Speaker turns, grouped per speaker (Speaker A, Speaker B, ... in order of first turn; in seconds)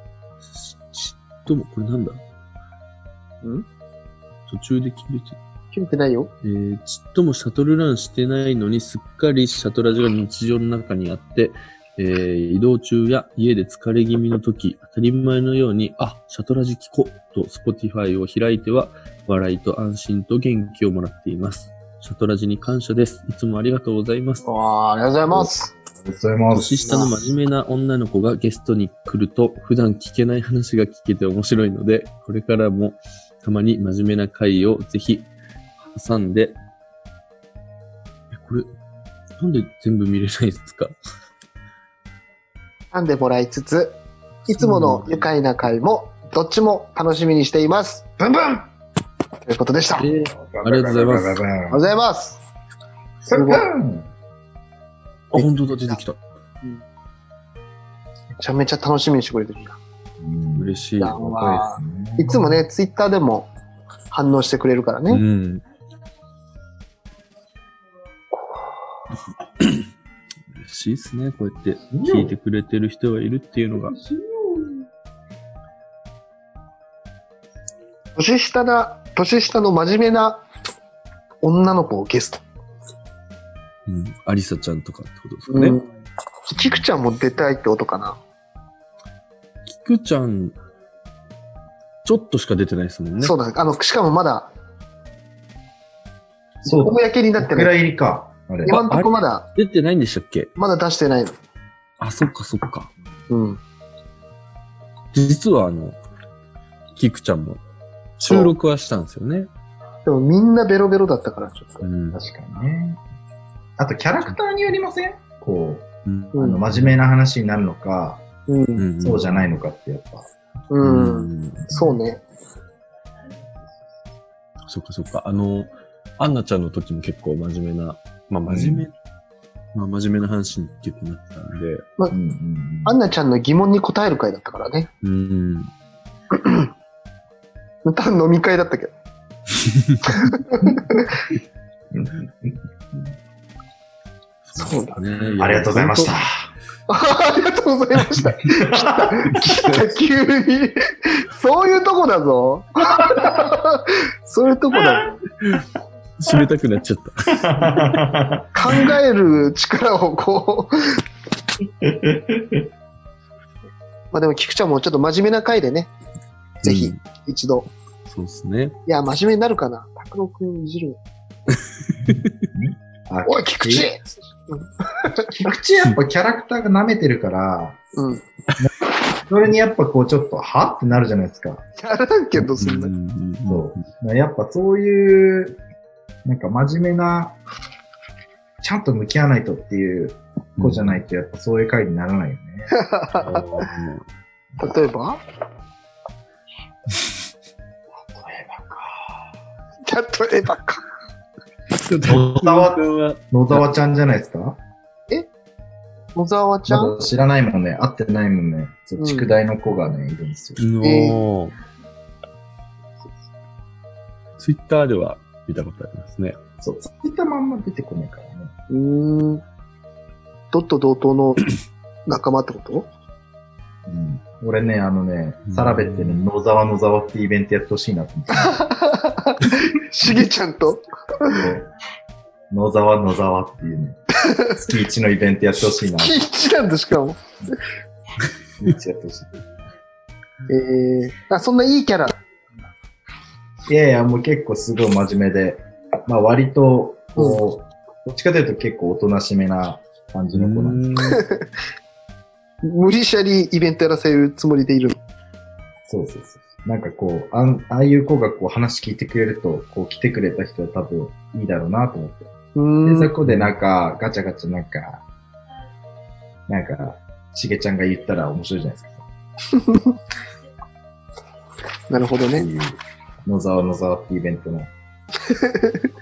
Speaker A: 0.4-2.2, 4.5-5.4, 6.4-24.4, 26.5-35.3, 35.8-36.6, 38.3-38.7, 39.4-40.9, 44.5-45.3, 50.0-51.4, 55.3-56.2, 60.5-61.2, 65.1-65.6, 69.6-69.8, 70.6-74.0, 83.9-85.8, 89.7-90.5, 92.0-93.3, 98.7-100.5, 102.0-102.9, 105.1-106.0, 107.0-107.6, 108.2-109.5, 111.8-112.2, 116.0-117.0, 118.8-119.4, 120.8-121.9, 124.7-128.9, 129.7-131.8, 135.0-135.7, 139.6-140.2, 144.4-146.1, 156.2-158.0, 166.6-167.0, 168.1-168.8, 182.3-183.8, 190.6-191.0, 193.2-194.0, 201.9-203.6, 210.6-211.5, 214.4-216.4, 225.4-226.2, 250.3-251.2
Speaker B: 5.7-6.3, 24.4-25.7, 26.8-27.2, 42.9-48.7, 49.5-50.1, 51.7-52.4, 53.3-53.7, 55.3-56.0, 58.4-59.8, 61.0-63.5, 64.1-65.2, 78.2-80.4, 81.4-82.4, 85.5-85.8, 86.5-88.2, 93.2-94.5, 96.6-97.7, 98.7-99.5, 100.5-101.4, 103.3-103.6, 108.2-108.5, 110.0-111.8, 116.3-116.6, 118.5-118.8, 120.7-122.2, 132.8-134.9, 136.3-136.7, 137.8-138.9, 140.0-141.2, 144.6-145.0, 146.9-155.2, 158.5-161.0, 164.1-165.9, 166.6-167.7, 168.8-171.0, 173.2-175.3, 177.9-178.2, 181.8-182.9, 192.7-193.7, 194.6-195.2, 199.8-200.8, 206.1-206.9, 209.0-209.3, 210.8-211.2, 218.7-219.4, 220.5-221.5, 222.1-222.9, 228.3-231.4, 234.2-234.6, 236.0-237.2, 240.5-242.2, 247.2-247.4, 251.0-251.4, 252.6-255.0, 262.5-263.1, 269.5-269.9, 271.9-272.5, 275.2-275.9
Speaker C: 25.3-27.2, 50.2-51.9, 53.3-54.1, 60.2-62.5, 71.9-72.3, 73.9-74.8, 96.6-98.8, 112.1-113.0, 113.8-118.2, 119.0-120.3, 128.5-128.8, 132.1-132.9, 141.9-142.5, 145.4-146.5, 148.4-149.4, 157.3-158.5, 161.8-162.7, 172.1-173.9, 175.3-177.8, 179.3-181.6, 183.5-185.6, 186.2-187.3, 188.6-192.7, 198.1-199.2, 202.0-204.6, 206.7-210.6, 216.6-218.5, 223.8-228.6, 231.3-231.7, 232.5-234.0, 234.6-236.2, 238.6-239.3, 243.7-250.8, 255.9-262.3, 262.8-265.0, 266.5-269.0, 272.3-274.7